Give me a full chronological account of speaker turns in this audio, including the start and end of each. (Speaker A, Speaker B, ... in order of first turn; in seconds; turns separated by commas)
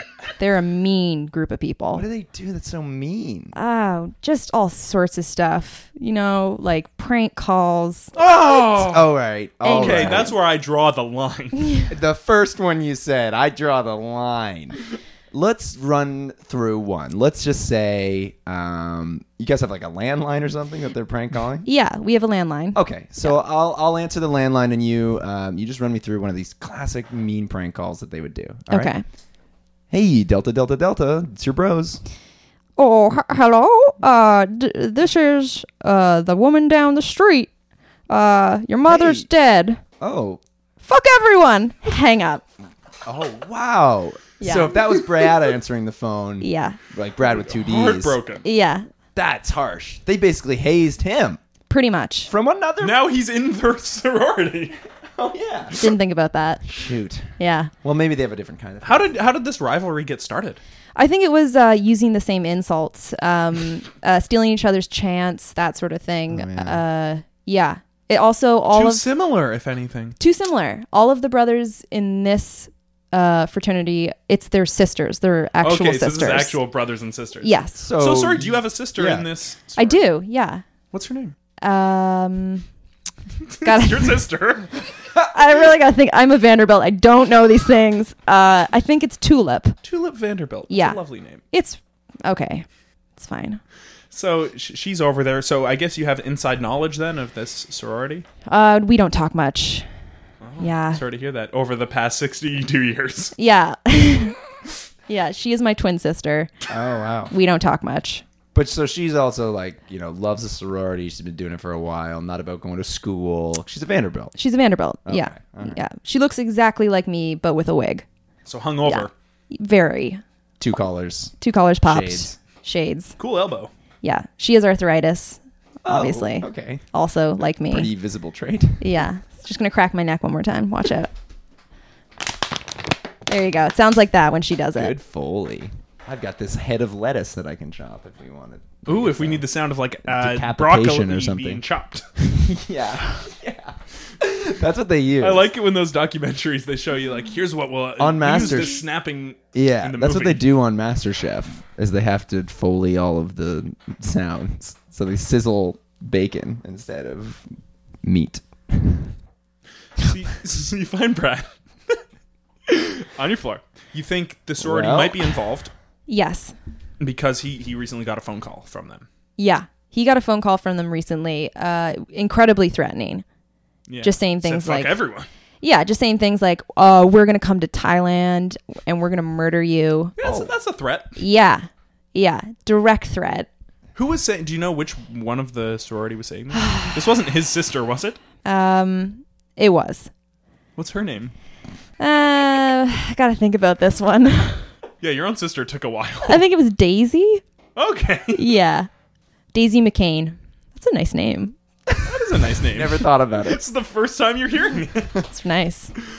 Speaker A: 0.4-2.1, Speaker B: 1.9-3.5, Speaker A: 3.5-8.1, Speaker C: 8.2-9.1, Speaker B: 8.7-10.3, Speaker A: 9.6-10.4, Speaker C: 9.7-11.8, Speaker B: 11.9-14.8, Speaker B: 15.3-21.7, Speaker A: 21.6-23.4, Speaker B: 22.8-28.9, Speaker A: 28.7-29.0, Speaker B: 29.9-32.0, Speaker A: 32.8-37.5, Speaker A: 38.1-39.8, Speaker B: 38.9-39.3, Speaker B: 40.0-40.4, Speaker A: 40.9-42.5, Speaker B: 43.0-48.2, Speaker A: 44.4-44.9, Speaker A: 46.4-46.8, Speaker C: 47.3-48.4, Speaker A: 48.4-48.9, Speaker B: 49.1-51.4, Speaker A: 51.7-52.3, Speaker B: 52.3-53.0, Speaker C: 52.8-54.8, Speaker B: 55.1-55.8, Speaker A: 55.8-56.7, Speaker B: 56.6-57.3, Speaker A: 57.4-57.7, Speaker B: 57.8-59.1, Speaker C: 58.8-60.6, Speaker A: 61.0-69.0, Speaker B: 66.3-66.8, Speaker C: 68.7-70.2, Speaker A: 70.2-76.6, Speaker C: 75.6-80.1, Speaker A: 77.4-77.8, Speaker B: 77.8-79.3, Speaker A: 79.8-80.6, Speaker C: 80.9-81.3, Speaker A: 81.6-82.7, Speaker C: 83.4-84.8, Speaker A: 83.6-84.3, Speaker A: 85.2-89.8, Speaker C: 89.8-91.4, Speaker A: 90.7-91.0, Speaker A: 91.5-92.7, Speaker A: 93.2-93.6, Speaker C: 94.1-98.2, Speaker A: 98.5-99.9, Speaker C: 100.4-103.3, Speaker A: 100.6-101.0, Speaker A: 103.4-104.4, Speaker A: 105.1-106.5, Speaker B: 106.7-107.3, Speaker A: 107.3-108.2, Speaker B: 108.5-114.3, Speaker A: 114.4-118.1, Speaker B: 115.1-115.8, Speaker C: 118.5-119.1, Speaker A: 118.9-120.2, Speaker B: 120.6-121.3, Speaker A: 121.4-123.2, Speaker B: 121.8-122.3, Speaker C: 123.2-123.7, Speaker A: 124.0-127.9, Speaker B: 125.8-126.8, Speaker B: 127.7-128.8, Speaker A: 128.8-131.1, Speaker A: 133.3-135.0, Speaker B: 134.8-139.4, Speaker C: 138.9-142.1, Speaker B: 140.1-141.6, Speaker B: 142.2-145.5, Speaker C: 145.2-150.5, Speaker B: 148.0-148.8, Speaker B: 149.5-159.1, Speaker C: 160.0-162.0, Speaker C: 162.7-165.7, Speaker B: 164.6-165.3, Speaker A: 166.1-166.5, Speaker C: 167.0-169.1, Speaker A: 169.4-173.2, Speaker C: 173.9-175.3, Speaker A: 174.0-174.9, Speaker A: 175.6-180.2, Speaker C: 180.2-181.2, Speaker B: 180.2-180.5, Speaker A: 181.2-183.5, Speaker C: 183.9-188.2, Speaker A: 186.6-186.9, Speaker A: 188.4-190.1, Speaker C: 190.8-191.3, Speaker A: 192.0-194.7, Speaker C: 195.0-196.4, Speaker A: 196.3-197.4, Speaker C: 197.8-198.4, Speaker A: 198.3-198.9, Speaker A: 199.5-201.6, Speaker C: 202.1-205.2, Speaker B: 202.6-203.6, Speaker A: 205.3-205.9